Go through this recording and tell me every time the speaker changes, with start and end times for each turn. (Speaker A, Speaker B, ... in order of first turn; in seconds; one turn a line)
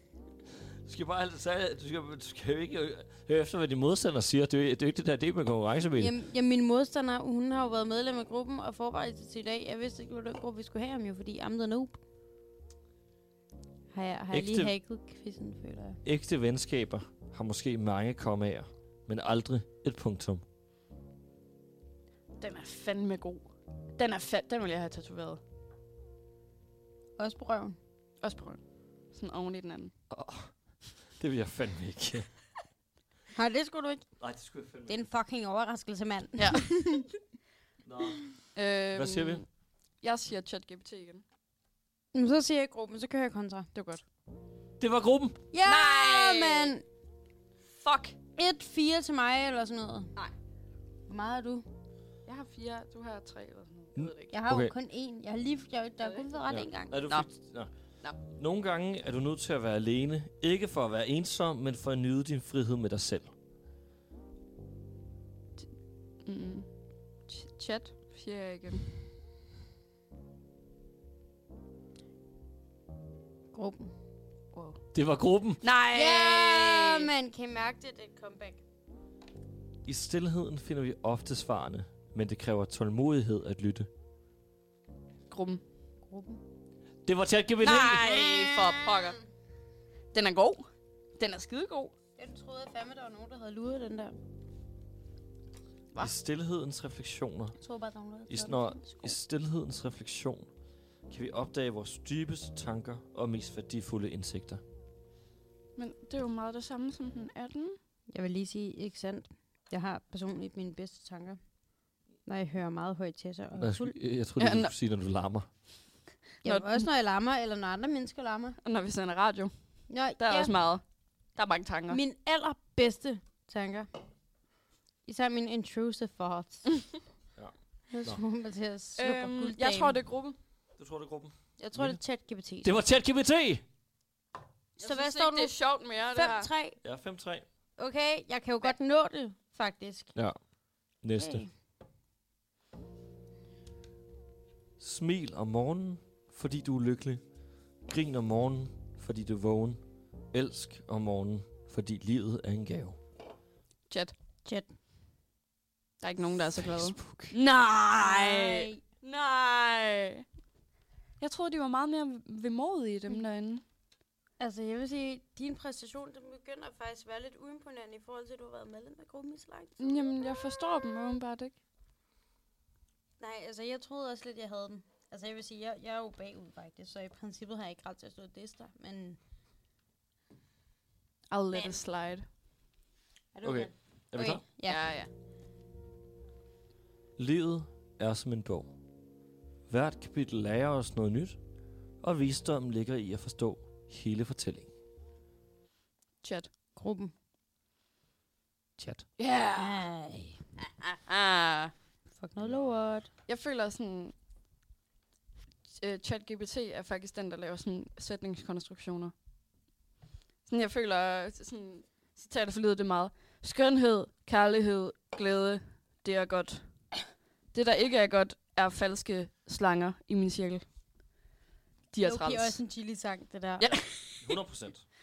Speaker A: 0.8-6.1
Speaker B: 6.0-12.0
Speaker B: 13.9-16.0
Speaker A: 14.3-14.7
Speaker A: 16.0-20.4
Speaker C: 22.4-25.4
Speaker B: 27.2-27.8
Speaker C: 28.2-28.6
Speaker C: 29.1-29.9
Speaker A: 30.1-30.5
Speaker A: 31.2-32.3
Speaker B: 33.3-34.0
Speaker A: 34.2-35.0
Speaker B: 34.9-37.1
Speaker C: 36.4-36.9
Speaker A: 37.8-38.2
Speaker C: 38.5-39.5
Speaker A: 38.9-39.4
Speaker C: 40.0-41.2
Speaker B: 42.1-43.7
Speaker C: 43.7-44.0
Speaker A: 44.8-45.4
Speaker B: 45.5-46.8
Speaker C: 45.6-46.7
Speaker C: 47.8-48.1
Speaker B: 48.4-50.1
Speaker B: 51.1-51.6
Speaker C: 52.2-54.3
Speaker A: 54.0-54.7
Speaker B: 54.3-56.9
Speaker A: 56.5-57.7
Speaker A: 58.2-63.3
Speaker C: 66.2-66.7
Speaker C: 67.2-68.9
Speaker B: 73.5-73.9
Speaker C: 74.5-74.8
Speaker A: 74.9-75.6
Speaker C: 75.6-77.1
Speaker B: 75.9-78.6
Speaker A: 79.8-83.9
Speaker C: 85.3-85.6
Speaker B: 86.1-86.4
Speaker A: 87.0-88.1
Speaker C: 87.6-89.2
Speaker B: 88.0-89.2
Speaker C: 90.1-91.9
Speaker B: 92.2-94.2
Speaker A: 96.0-97.6
Speaker B: 97.6-99.2
Speaker A: 98.3-100.5
Speaker A: 101.1-104.6
Speaker C: 105.8-107.8
Speaker B: 108.1-111.4
Speaker B: 112.2-113.9
Speaker A: 113.6-115.5
Speaker C: 114.4-114.7
Speaker C: 116.4-116.8
Speaker B: 116.4-118.6
Speaker C: 118.6-119.5
Speaker B: 119.9-120.5
Speaker C: 120.2-122.0
Speaker B: 121.9-123.9
Speaker B: 125.0-126.8
Speaker A: 127.3-128.2
Speaker B: 127.9-130.0
Speaker C: 129.0-130.4
Speaker A: 130.8-132.0
Speaker B: 131.6-132.8
Speaker A: 132.6-133.6
Speaker C: 134.8-136.5
Speaker B: 134.8-135.6
Speaker B: 136.1-136.8
Speaker A: 136.8-137.4
Speaker B: 137.8-140.1
Speaker A: 140.1-140.4
Speaker A: 140.9-141.4
Speaker B: 141.2-141.5
Speaker A: 144.8-147.2
Speaker A: 147.8-149.8
Speaker A: 150.3-153.0
Speaker B: 154.4-154.7
Speaker C: 156.0-160.2
Speaker A: 156.6-157.3
Speaker B: 158.0-158.8
Speaker C: 161.2-163.6
Speaker B: 164.4-170.6
Speaker C: 169.8-171.6
Speaker B: 173.2-179.2
Speaker C: 181.3-182.2
Speaker B: 181.5-181.8
Speaker B: 183.3-184.9
Speaker A: 183.4-184.4
Speaker C: 184.7-185.1
Speaker A: 187.2-188.7
Speaker A: 189.7-191.4
Speaker A: 192.0-194.7
Speaker C: 196.2-196.5
Speaker B: 196.8-197.1
Speaker A: 198.8-199.0
Speaker C: 199.2-199.8
Speaker B: 199.5-200.4
Speaker C: 201.1-201.7
Speaker B: 202.2-203.1
Speaker A: 202.4-202.7
Speaker C: 203.3-204.1
Speaker C: 205.7-209.1
Speaker C: 210.5-216.9
Speaker C: 217.5-220.6
Speaker C: 221.9-222.6
Speaker B: 222.0-223.8
Speaker C: 223.6-224.3
Speaker A: 224.2-224.8